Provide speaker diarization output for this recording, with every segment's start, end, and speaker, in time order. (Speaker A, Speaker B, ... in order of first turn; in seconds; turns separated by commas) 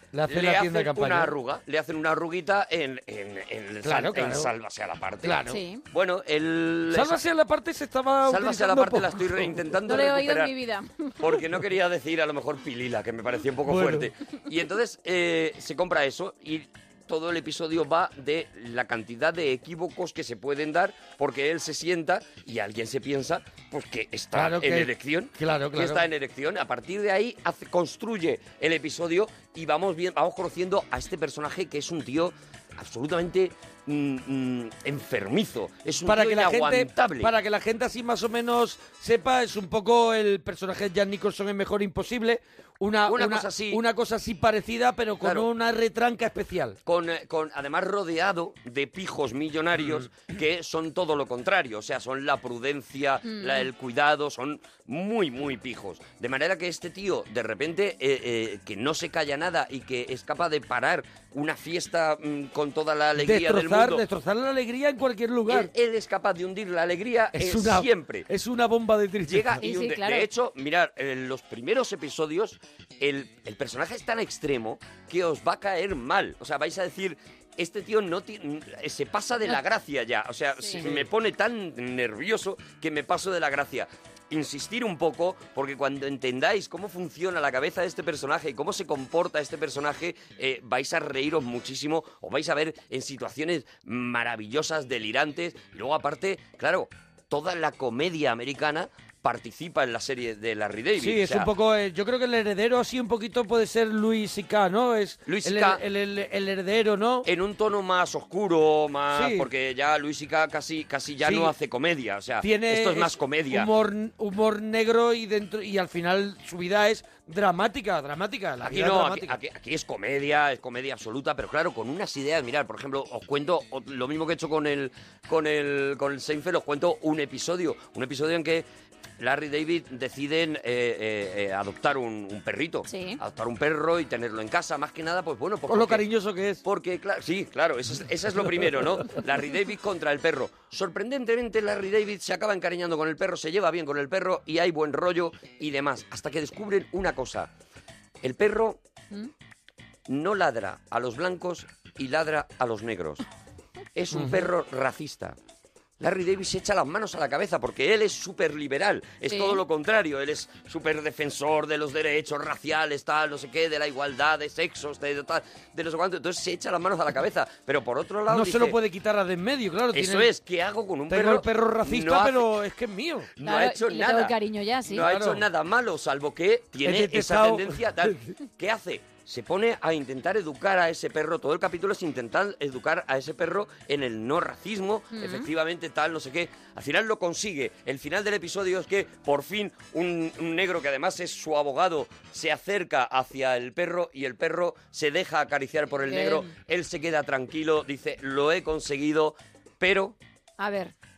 Speaker A: 0.1-1.3, Speaker B: 0.3-7.2, Speaker A: 3.9-4.5, Speaker A: 5.2-5.6, Speaker C: 5.5-5.8, Speaker A: 6.9-9.6, Speaker B: 8.2-10.5, Speaker C: 9.9-11.2, Speaker B: 11.2-37.3, Speaker A: 13.7-14.1, Speaker A: 24.3-26.0, Speaker A: 36.0-46.8, Speaker B: 43.1-43.8, Speaker B: 45.2-45.5, Speaker B: 46.9-64.0, Speaker C: 53.2-53.7, Speaker A: 63.2-65.7, Speaker B: 65.5-68.3, Speaker A: 67.3-69.6, Speaker B: 69.3-101.5, Speaker C: 69.6-70.3, Speaker C: 80.6-80.9, Speaker A: 101.0-107.3, Speaker B: 105.3-105.8, Speaker B: 107.2-113.7, Speaker A: 109.1-109.5, Speaker A: 111.2-111.5, Speaker A: 112.4-119.4, Speaker B: 118.6-128.7, Speaker B: 129.2-136.0, Speaker C: 132.9-133.2, Speaker A: 135.7-136.6, Speaker B: 136.6-147.5, Speaker B: 148.2-148.8, Speaker B: 150.1-153.2, Speaker B: 153.9-155.4, Speaker A: 154.2-154.4, Speaker B: 156.0-168.8, Speaker C: 159.2-159.6, Speaker A: 168.3-170.3, Speaker B: 169.9-172.5, Speaker A: 171.1-173.3, Speaker B: 173.4-174.4, Speaker C: 173.4-175.1, Speaker B: 174.9-200.2, Speaker A: 175.0-175.4, Speaker A: 176.8-178.2, Speaker C: 185.1-185.5, Speaker C: 196.1-196.5, Speaker C: 200.6-200.9